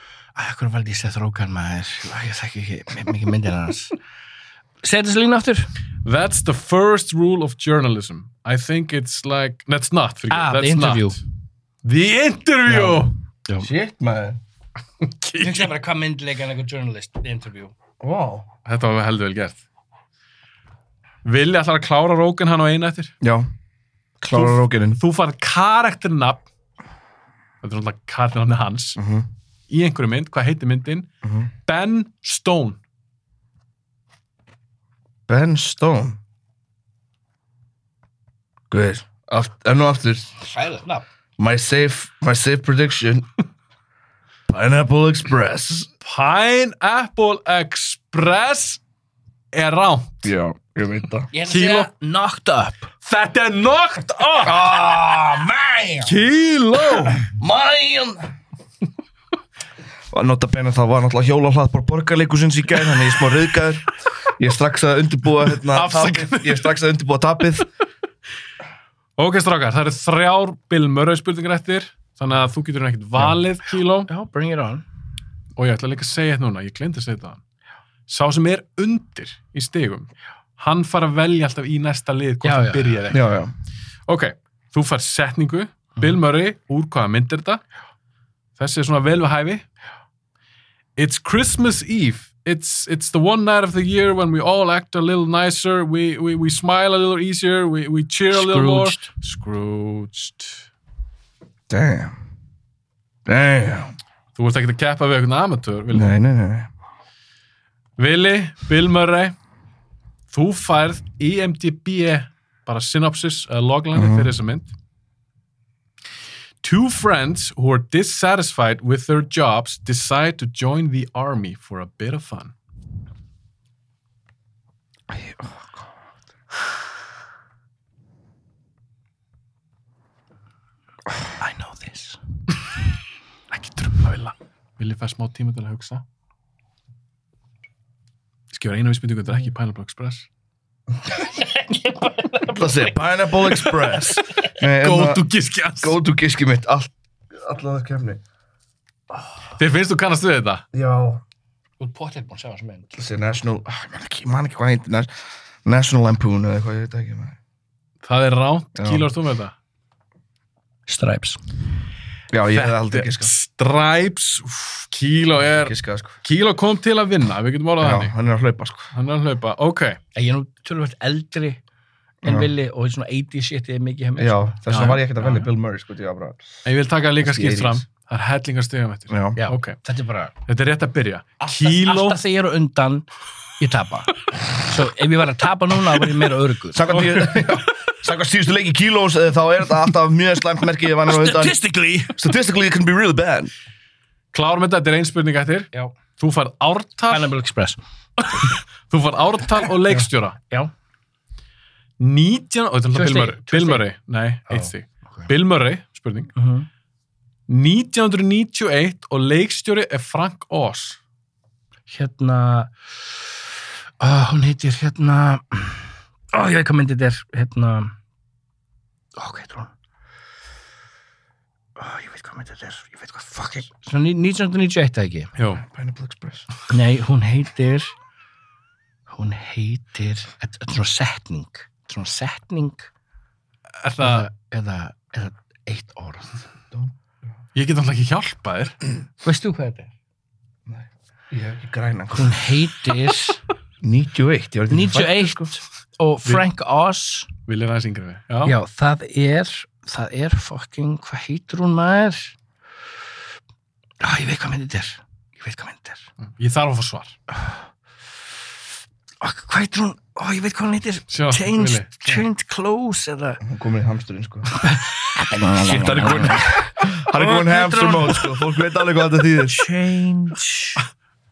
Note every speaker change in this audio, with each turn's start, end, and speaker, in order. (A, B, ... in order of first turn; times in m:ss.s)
0:00.4-0:04.0 A
0:04.8-0:05.7 A
0:06.0-0:11.2 B
0:10.3-0:11.2 A
0:11.8-0:13.1 B
0:12.7-0:13.7 A
0:13.6-0:14.4 C
0:15.0-0:15.7 B
0:15.4-0:17.7 A
0:18.0-0:18.5 C
0:18.6-0:19.6 B
0:21.2-0:23.1 B
0:23.2-0:23.5 C
0:24.2-0:25.0 C
0:24.3-0:26.4 B
0:27.6-0:29.0 B
0:29.0-0:29.3 C
0:29.7-0:31.1 B
0:31.2-0:31.5 C
0:31.7-0:32.8 B
0:35.3-0:36.2 C
0:38.7-0:40.3 C
0:40.4-0:41.0 A
0:41.4-0:43.3 C
0:44.5-0:45.9 C
0:46.0-0:48.8 B
0:49.5-0:50.3 B
0:50.2-0:51.3 C
0:51.3-0:52.9 A
0:51.5-0:51.9 B
0:53.0-0:54.6 B
0:54.4-0:56.1 C
0:56.0-0:57.2 B
0:57.2-0:58.3 C
1:00.1-1:07.6 C
1:05.7-1:06.7 B
1:09.2-1:14.1 B
1:14.1-1:14.8 A
1:15.6-1:17.4 B
1:18.1-1:23.3 B
1:22.4-1:23.0 A
1:23.1-1:23.5 C
1:24.1-1:27.6 B
1:28.6-1:29.6 B
1:31.0-1:40.7 B
1:38.3-1:39.1 A
1:41.7-1:42.2 C
1:43.3-1:43.9 C
1:44.4-1:46.2 B
1:45.9-1:46.7 C
1:48.0-1:49.4 B
1:50.3-1:54.7 B
1:53.9-1:54.3 C
1:56.6-2:02.5 B
2:05.1-2:05.8 C
2:11.4-2:12.2 A
2:13.5-2:16.0 B
2:18.5-2:20.3 B
2:21.1-2:23.5 A
2:22.5-2:25.2 C
2:23.7-2:26.0 B
2:25.8-2:28.2 C
2:29.6-2:30.6 B
2:30.7-2:31.2 C
2:31.8-2:33.0 A
2:33.0-2:35.1 C
2:35.6-2:37.4 C
2:38.0-2:39.5 B
2:38.8-2:39.1 C
2:40.9-2:41.4 A
2:42.3-2:43.3 C
2:42.5-2:48.1 B
2:45.4-2:46.2 C
2:47.8-2:48.9 C
2:48.9-2:50.0 B
2:50.2-2:51.6 A
2:52.2-2:52.5 C
2:52.2-2:55.0 A
2:54.2-2:56.4 C
2:54.7-2:55.5 B
2:56.6-2:59.8 B
2:57.2-2:57.8 C
2:59.1-2:59.4 C
2:59.4-3:00.3 A
3:00.5-3:02.2 B
3:01.4-3:03.1 A
3:03.6-3:07.0 A
3:06.7-3:11.6 C
3:06.9-3:07.4 B
3:11.1-3:12.2 A
3:12.1-3:13.5 C
3:14.3-3:17.3 B
3:17.1-3:17.8 A
3:18.2-3:20.4 B
3:19.9-3:20.7 A
3:22.0-3:26.3 B
3:22.9-3:23.8 A
3:24.5-3:25.3 A
3:26.4-3:26.7 A
3:27.5-3:31.0 B
3:31.9-3:32.7 A
3:34.0-3:38.0 A
3:39.2-3:39.7 A
3:41.8-3:45.3 A
3:45.4-3:45.6 B
3:45.6-3:46.5 C
3:46.7-3:47.9 A
3:49.1-3:52.9 A
3:53.8-3:54.3 B
3:54.0-3:56.3 A
3:57.6-3:58.8 B
3:59.2-3:59.9 A
4:00.7-4:02.4 C
4:02.1-4:03.4 A
4:03.8-4:05.6 C
4:04.7-4:07.3 A
4:07.5-4:08.6 B
4:08.4-4:12.4 A
4:14.0-4:16.0 A
4:16.2-4:17.2 B
4:19.2-4:23.4 A
4:21.1-4:22.2 B
4:23.4-4:24.5 C
4:24.6-4:28.5 A
4:25.4-4:29.6 C
4:29.4-4:30.8 A